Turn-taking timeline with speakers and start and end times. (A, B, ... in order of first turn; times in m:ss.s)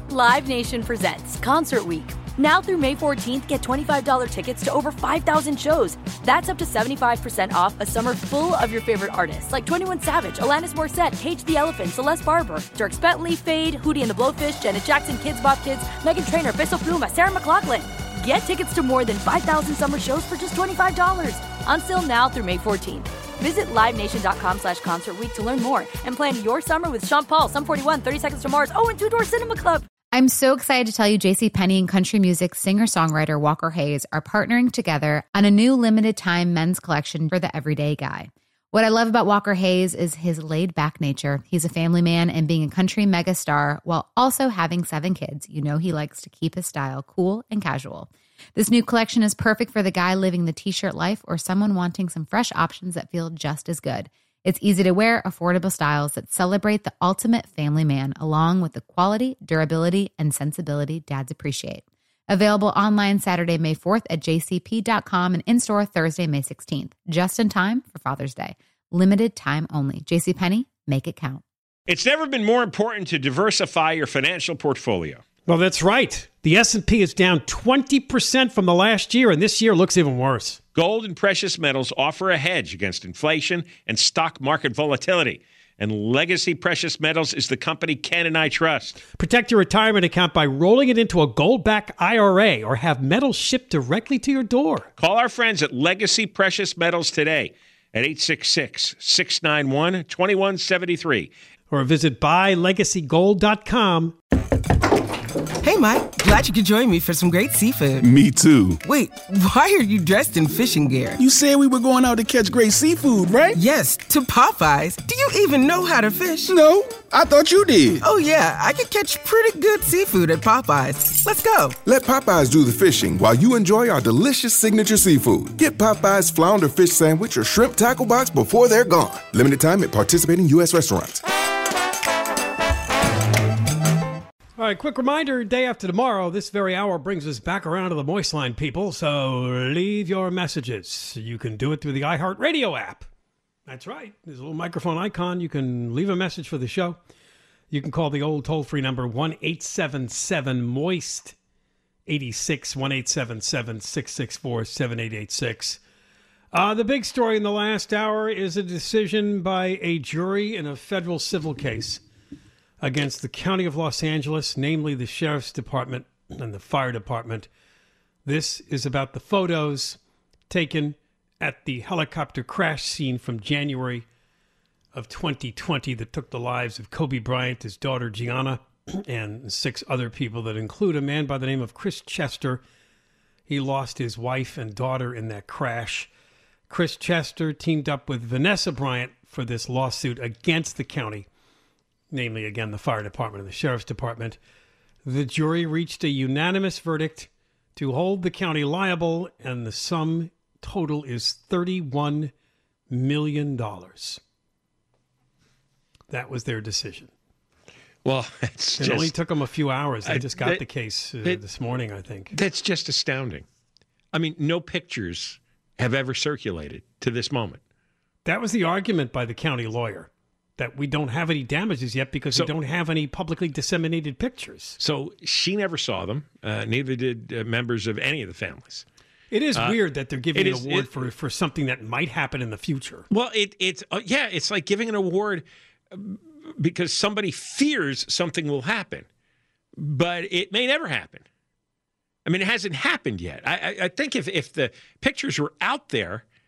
0:00.1-0:29.9 A
0:30.1-1:11.4 B
1:11.9-1:15.2 C
1:15.5-1:20.6 D
1:20.7-1:29.0 C
1:29.2-1:34.9 D
1:35.0-1:41.3 C
1:41.7-1:44.2 D
1:45.6-1:48.0 E
1:48.0-1:48.8 F
1:48.1-1:48.6 G
1:48.8-1:51.2 E
1:51.2-1:53.6 G
1:53.5-1:56.5 E
1:56.5-1:58.0 G
1:58.0-2:01.8 E
2:01.8-2:11.2 F
2:14.6-2:23.1 D
2:23.7-2:27.0 D
2:27.7-2:31.3 D
2:32.1-2:35.8 D
2:36.5-2:42.0 D
2:42.8-2:47.5 D
2:48.2-2:54.0 D
2:54.9-3:02.6 D
3:03.5-3:06.1 D
3:06.7-3:11.3 D
3:12.1-3:14.4 D
3:15.0-3:22.3 D
3:22.9-3:24.2 D
3:26.1-3:27.1 D
3:28.0-3:29.1 C
3:28.8-3:32.3 D
3:30.0-3:30.6 C
3:32.3-3:33.4 C
3:34.1-3:37.6 C
3:38.2-3:44.8 D
3:44.8-3:48.8 C
3:49.3-3:53.0 D
3:50.3-3:51.0 C
3:53.1-3:59.0 C
3:59.8-4:01.2 C
4:02.2-4:06.2 C